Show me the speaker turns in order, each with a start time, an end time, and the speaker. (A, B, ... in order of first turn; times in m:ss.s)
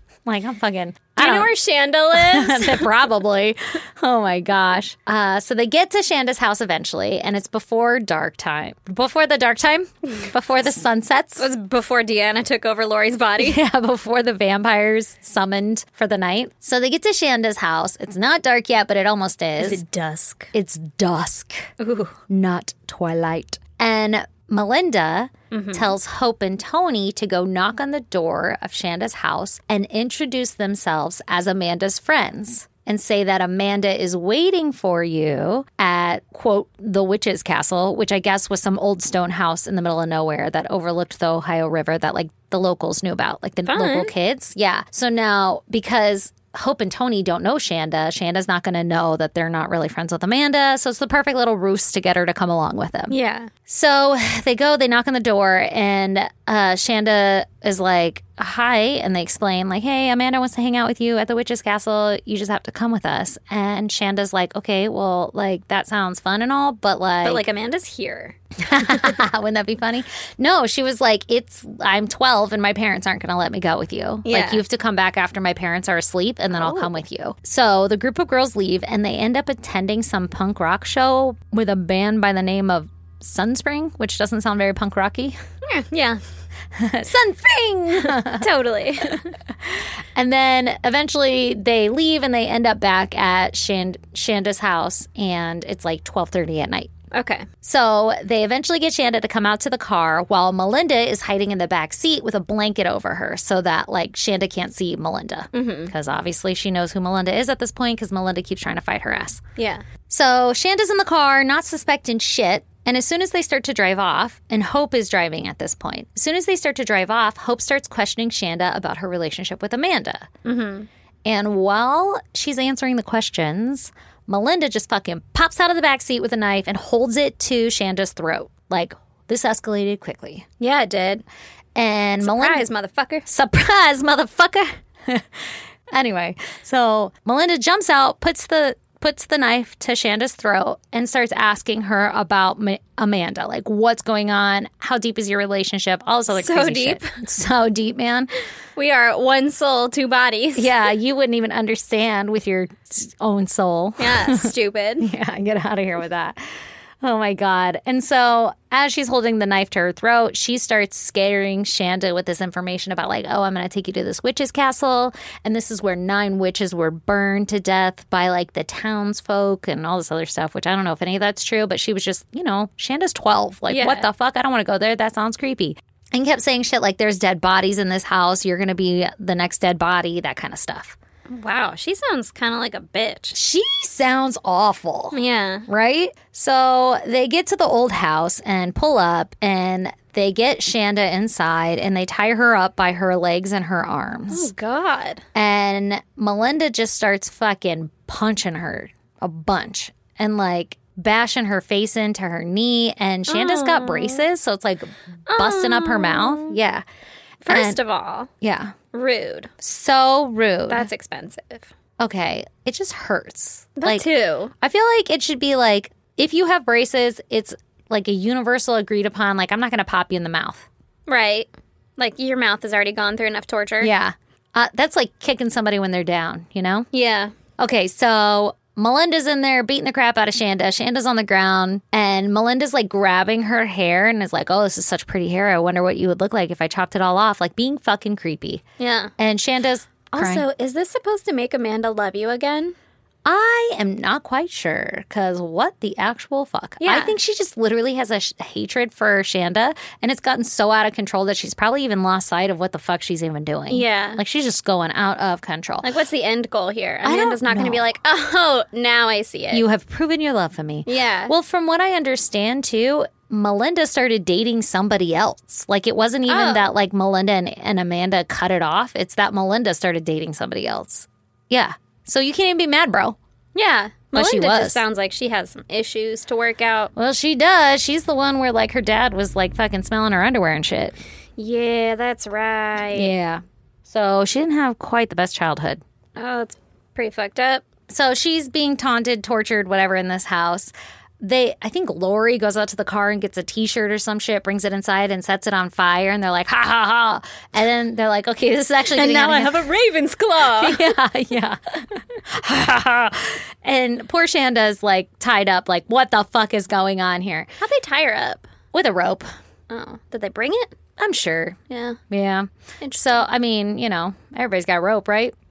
0:00.2-0:01.5 A
0:01.2-0:02.9 B
0:02.1-0:11.5 A
0:11.4-0:13.6 B
0:13.4-0:19.8 A
0:19.6-0:20.5 B
0:20.5-0:21.7 A
0:21.8-0:22.2 B
0:22.3-1:07.4 A
0:25.5-0:25.9 B
0:43.6-0:44.1 B
0:53.1-0:53.5 B
1:07.2-1:09.2 B
1:08.6-1:25.4 A
1:14.2-1:14.6 B
1:16.5-1:17.0 B
1:25.6-1:26.2 B
1:26.8-1:28.4 A
1:27.9-1:29.3 B
1:30.1-1:36.9 A
1:37.1-1:37.5 B
1:37.6-1:49.4 A
1:45.5-1:45.9 B
1:49.6-1:49.8 B
1:50.1-2:00.3 A
2:00.4-2:00.9 B
2:01.2-2:10.4 A
2:10.6-2:11.2 B
2:11.8-2:12.6 A
2:12.2-2:13.3 B
2:13.2-2:28.3 A
2:26.3-2:27.2 B
2:28.8-2:30.7 B
2:30.6-2:36.4 A
2:34.0-2:35.1 B
2:37.0-3:01.0 A
2:53.7-2:54.0 B
3:01.3-3:03.4 B
3:03.3-3:14.5 A
3:05.1-3:05.6 B
3:14.3-3:15.2 B
3:15.4-3:26.8 A
3:23.3-3:24.3 B
3:25.3-3:26.6 B
3:27.4-3:28.3 B
3:27.5-3:27.8 A
3:28.4-3:28.8 A
3:28.9-3:29.5 B
3:29.6-3:30.9 A
3:30.7-3:31.7 B
3:32.0-3:34.1 A
3:33.8-3:34.5 B
3:34.6-3:40.6 A
3:41.1-3:43.9 B
3:43.8-3:46.9 A
3:46.9-3:47.3 B
3:47.6-3:58.6 A
3:58.8-3:59.1 B
3:59.2-4:00.4 A
4:00.1-4:02.8 B
4:03.3-4:15.9 A
4:06.8-4:07.1 B
4:13.7-4:14.2 B
4:15.8-4:19.6 B
4:17.0-4:17.9 A
4:19.5-4:33.2 A
4:20.9-4:21.3 B
4:26.3-4:26.7 B
4:33.6-4:36.9 B
4:34.1-4:34.8 A
4:36.9-4:41.0 A
4:41.4-4:43.1 B
4:42.9-4:45.8 A
4:46.2-4:47.6 B
4:47.9-4:59.7 A
4:58.9-5:00.9 B
5:00.6-5:07.6 A
5:07.6-5:08.4 B
5:08.7-5:09.3 A
5:09.7-5:10.8 B
5:11.0-5:11.6 A
5:11.7-5:12.0 B
5:12.1-5:15.4 A
5:12.8-5:13.2 B